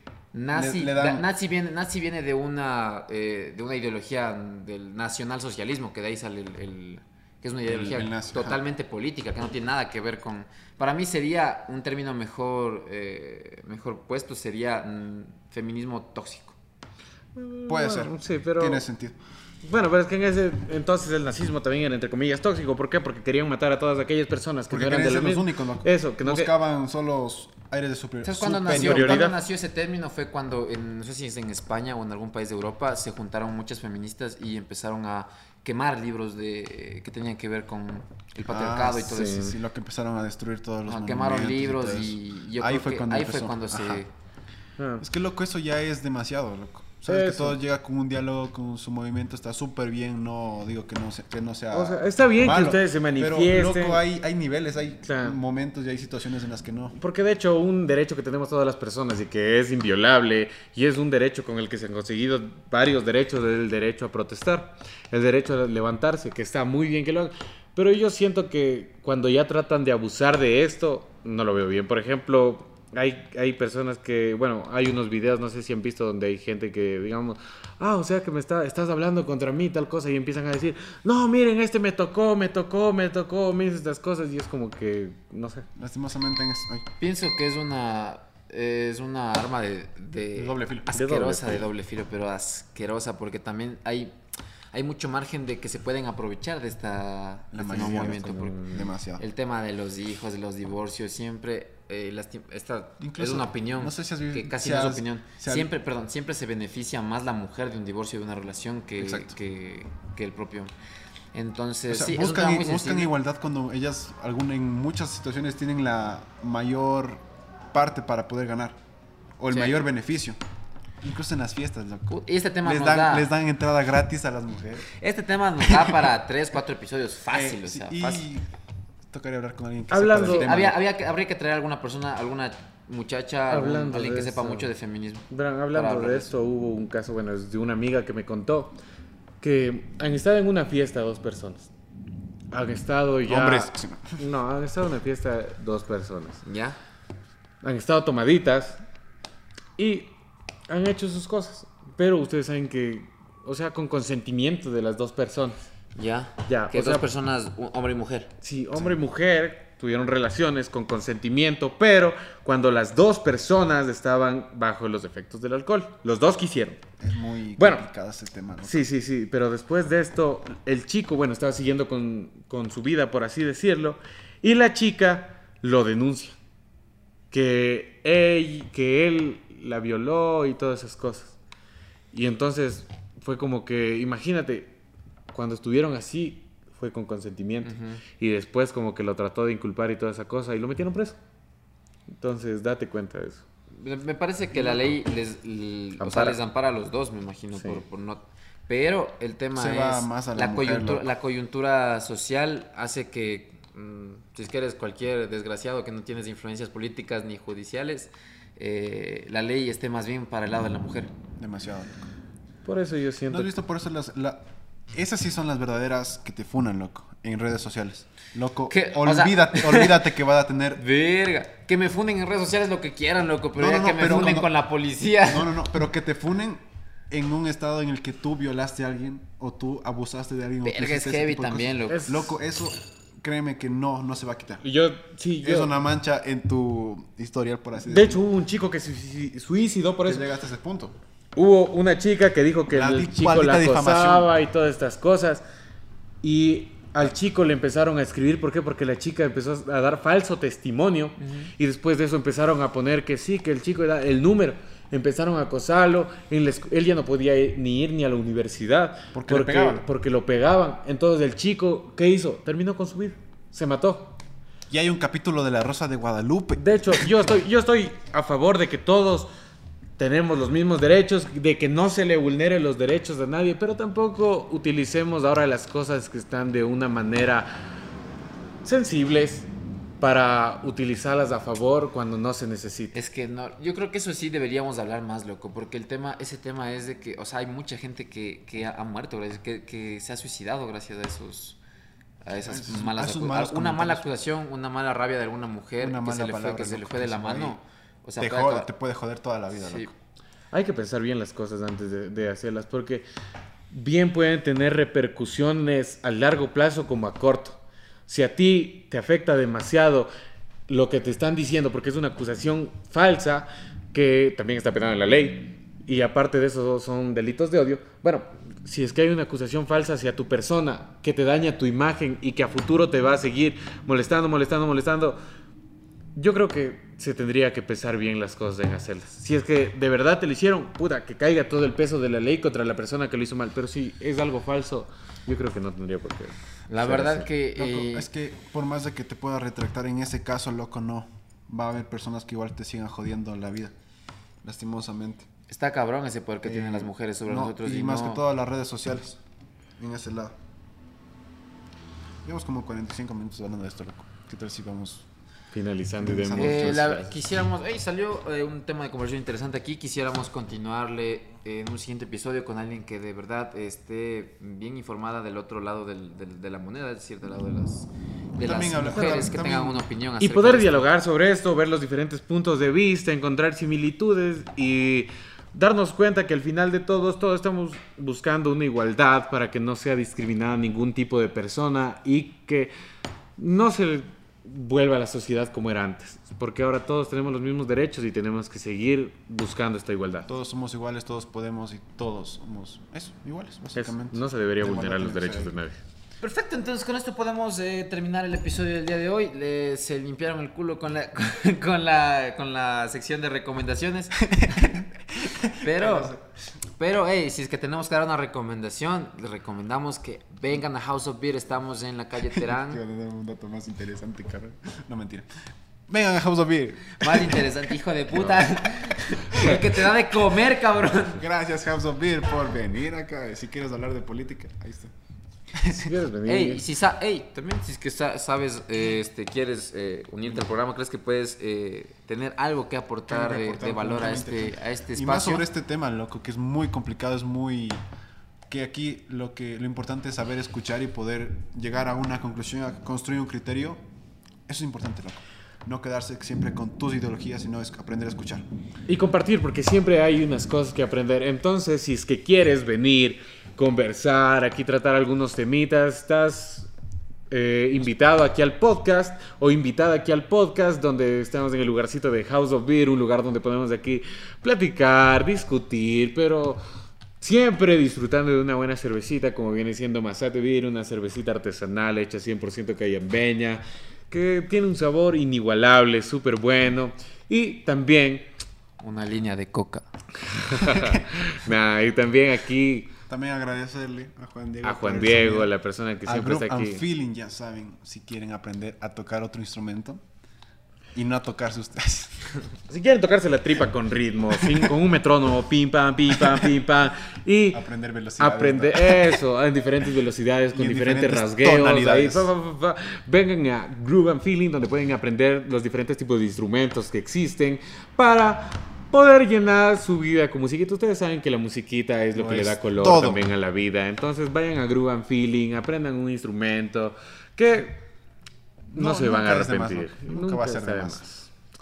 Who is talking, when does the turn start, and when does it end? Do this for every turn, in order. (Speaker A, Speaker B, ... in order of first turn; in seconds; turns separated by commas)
Speaker A: 0.3-16.6, Speaker B: 0.5-1.2, Speaker B: 7.6-8.6, Speaker C: 17.3-18.8, Speaker B: 17.7-19.2, Speaker C: 19.6-26.5, Speaker B: 24.7-29.3, Speaker A: 28.2-39.5, Speaker C: 28.7-29.4, Speaker B: 38.5-44.0, Speaker C: 39.1-39.5, Speaker A: 40.9-44.1, Speaker C: 44.8-45.0, Speaker B: 45.0-56.9, Speaker C: 47.1-47.6, Speaker C: 51.7-54.0, Speaker C: 55.0-55.4, Speaker C: 56.9-85.7, Speaker B: 85.7-86.9, Speaker A: 87.0-94.1, Speaker B: 90.3-91.0, Speaker C: 90.9-91.7, Speaker A: 94.7-110.7, Speaker B: 97.5-99.2, Speaker C: 97.6-98.8, Speaker B: 103.0-105.7, Speaker B: 109.0-109.3, Speaker A: 111.3-113.1, Speaker B: 111.9-118.8, Speaker B: 119.4-120.4, Speaker A: 119.5-119.8, Speaker B: 121.0-124.9, Speaker A: 122.1-123.3, Speaker A: 125.0-128.3, Speaker B: 127.3-128.4, Speaker B: 129.1-130.8, Speaker C: 129.9-130.5, Speaker A: 130.1-136.3, Speaker C: 133.5-134.7, Speaker C: 135.3-138.8, Speaker C: 139.4-141.7, Speaker C: 142.5-146.4, Speaker B: 143.3-144.2, Speaker A: 146.4-146.8, Speaker C: 147.6-148.8, Speaker C: 149.8-150.1, Speaker C: 150.7-155.6, Speaker A: 155.9-158.3, Speaker C: 156.5-157.0, Speaker C: 158.4-166.8, Speaker B: 167.0-168.8, Speaker C: 167.6-167.8, Speaker C: 168.6-176.4, Speaker C: 177.3-181.3, Speaker C: 182.1-184.7, Speaker C: 185.3-191.2, Speaker A: 187.6-188.0, Speaker C: 192.2-193.4, Speaker A: 193.7-211.1, Speaker B: 194.6-194.8, Speaker C: 196.0-196.4, Speaker C: 197.5-197.8, Speaker B: 199.5-201.1, Speaker B: 211.4-212.1, Speaker C: 212.6-213.5, Speaker B: 213.3-220.8, Speaker A: 218.7-220.0, Speaker A: 220.8-225.6, Speaker B: 223.6-224.5, Speaker B: 225.2-234.6, Speaker A: 230.6-232.0, Speaker C: 231.9-232.3, Speaker C: 234.6-235.7, Speaker B: 235.4-238.2, Speaker C: 237.8-240.3, Speaker B: 240.1-240.9, Speaker C: 241.3-245.4, Speaker B: 242.7-244.3, Speaker C: 246.2-264.2, Speaker A: 251.2-251.5, Speaker B: 259.1-259.9, Speaker B: 264.7-267.2, Speaker C: 266.6-269.3, Speaker C: 270.0-277.7, Speaker C: 278.6-279.5, Speaker C: 280.0-283.0, Speaker A: 282.9-291.6, Speaker A: 292.2-298.7, Speaker B: 292.3-294.1, Speaker B: 295.8-297.6, Speaker B: 298.2-299.9, Speaker A: 299.5-299.9, Speaker C: 300.5-303.0, Speaker C: 303.7-310.1, Speaker C: 310.7-325.2, Speaker C: 326.1-337.3, Speaker A: 336.7-338.1, Speaker B: 337.5-343.7, Speaker B: 344.4-345.3, Speaker A: 345.5-348.2, Speaker B: 346.4-349.2, Speaker B: 349.8-350.4, Speaker B: 352.2-355.1, Speaker C: 355.5-357.1, Speaker B: 356.0-357.0, Speaker A: 356.4-370.9, Speaker B: 368.4-369.9, Speaker C: 370.2-382.7, Speaker C: 383.4-390.3, Speaker B: 390.3-395.5, Speaker C: 393.7-395.8, Speaker A: 396.2-404.2, Speaker B: 404.2-406.2, Speaker A: 405.6-406.1, Speaker A: 406.8-412.8, Speaker B: 412.3-415.3, Speaker B: 415.9-417.5, Speaker A: 417.0-421.2, Speaker B: 419.1-419.6, Speaker B: 421.1-424.9, Speaker B: 425.5-425.9, Speaker C: 425.7-426.6, Speaker A: 426.2-435.4, Speaker B: 433.1-437.8, Speaker B: 438.5-443.8, Speaker B: 444.5-448.4, Speaker C: 448.9-456.7, Speaker C: 457.3-466.6, Speaker C: 467.2-478.3, Speaker A: 478.8-479.8, Speaker C: 480.2-482.9, Speaker B: 480.6-481.2, Speaker B: 483.1-485.5, Speaker C: 484.6-486.8, Speaker B: 486.1-490.0, Speaker B: 490.9-492.2, Speaker C: 492.7-497.6, Speaker B: 494.4-494.7, Speaker B: 496.1-496.5, Speaker B: 497.5-499.2, Speaker C: 498.2-517.8, Speaker B: 500.5-502.3, Speaker B: 512.1-513.2, Speaker C: 518.7-521.3, Speaker B: 518.7-521.0